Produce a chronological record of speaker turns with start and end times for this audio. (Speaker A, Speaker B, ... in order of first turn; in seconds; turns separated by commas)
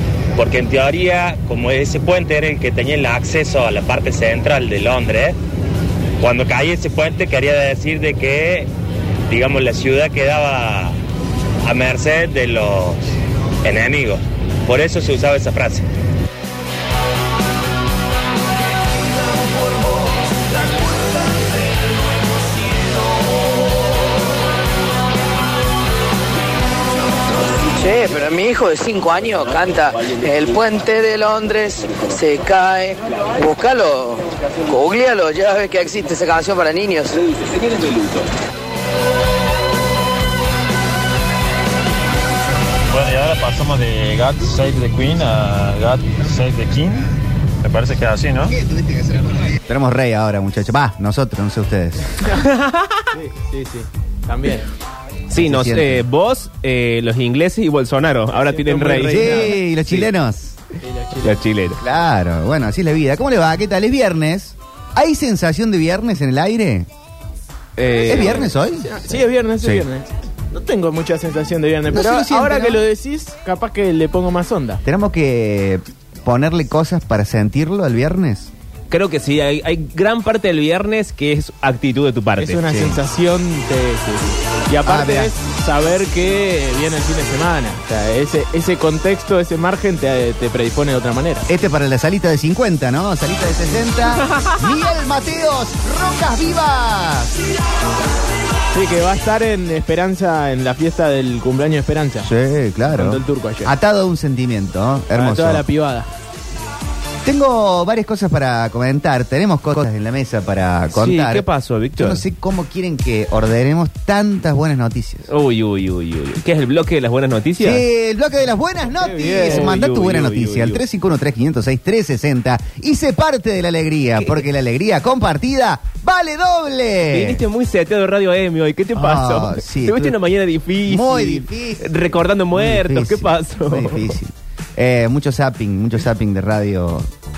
Speaker A: 0.4-5.4, Speaker A: 6.2-8.7, Speaker A: 9.3-10.9, Speaker A: 11.6-13.1, Speaker A: 13.6-15.8, Speaker B: 27.8-37.2, Speaker C: 42.9-47.1, Speaker C: 47.6-48.6, Speaker D: 48.6-52.1, Speaker E: 52.4-53.0, Speaker F: 53.1-54.6, Speaker E: 55.3-59.5, Speaker D: 55.3-56.0, Speaker F: 58.3-60.0, Speaker D: 59.1-60.6, Speaker F: 60.8-61.4, Speaker E: 61.2-61.8, Speaker D: 61.8-66.9, Speaker E: 67.8-68.4, Speaker F: 67.9-74.8, Speaker D: 68.0-69.8, Speaker D: 71.9-72.8, Speaker D: 74.8-78.5, Speaker E: 78.9-82.7, Speaker F: 82.4-91.4, Speaker D: 82.7-83.0, Speaker D: 84.8-85.3, Speaker D: 91.5-97.3, Speaker F: 98.7-102.3, Speaker D: 102.2-105.6, Speaker F: 102.9-103.7, Speaker F: 105.1-106.1, Speaker D: 107.2-111.4, Speaker E: 110.9-112.2, Speaker D: 112.0-115.3, Speaker E: 115.3-117.8, Speaker D: 117.6-127.4, Speaker F: 119.0-119.7, Speaker E: 119.2-120.8, Speaker E: 124.2-124.4, Speaker E: 127.1-134.1, Speaker D: 128.9-130.2, Speaker D: 130.8-131.9, Speaker D: 132.5-137.1